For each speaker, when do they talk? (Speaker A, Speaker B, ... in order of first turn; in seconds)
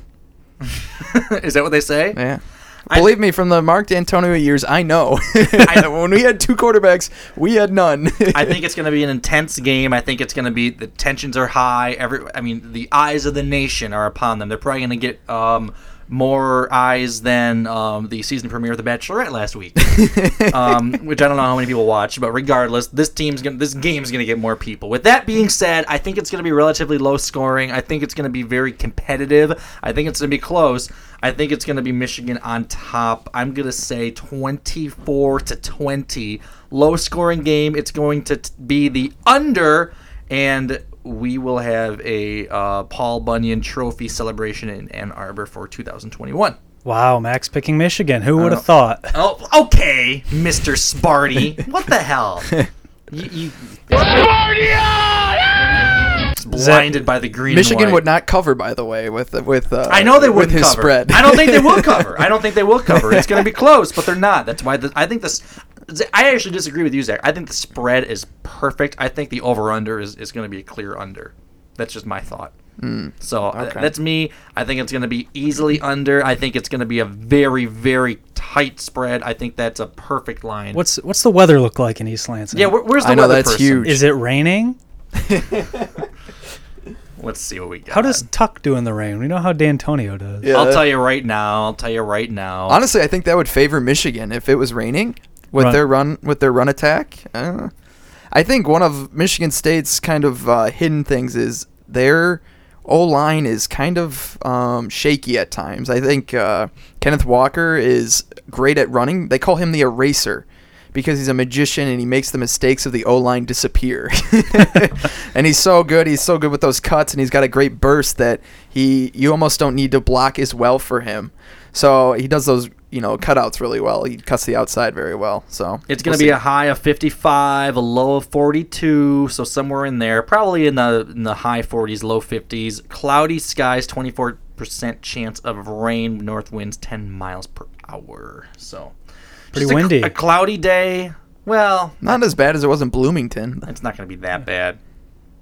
Speaker A: 0.7-2.2, 2.9-3.1, 5.6-5.9, 8.3-46.6, 49.1-52.6, 53.1-54.5, 56.4-58.0, 59.9-72.5, 73.2-80.8, 82.5-84.0, 87.2-88.2, 90.5-92.8, 125.9-138.9, 139.5-142.2, 143.7-144.8
Speaker B: 2.1-8.6, 20.0-20.8, 57.5-62.2, 62.9-63.5, 72.8-73.9, 83.0-84.0, 85.2-85.9, 90.4-90.9, 92.7-97.7, 98.3-126.4, 142.0-143.7
Speaker C: 46.8-49.1, 56.5-56.9, 80.7-82.7, 83.8-84.8, 87.9-90.5, 139.5-140.1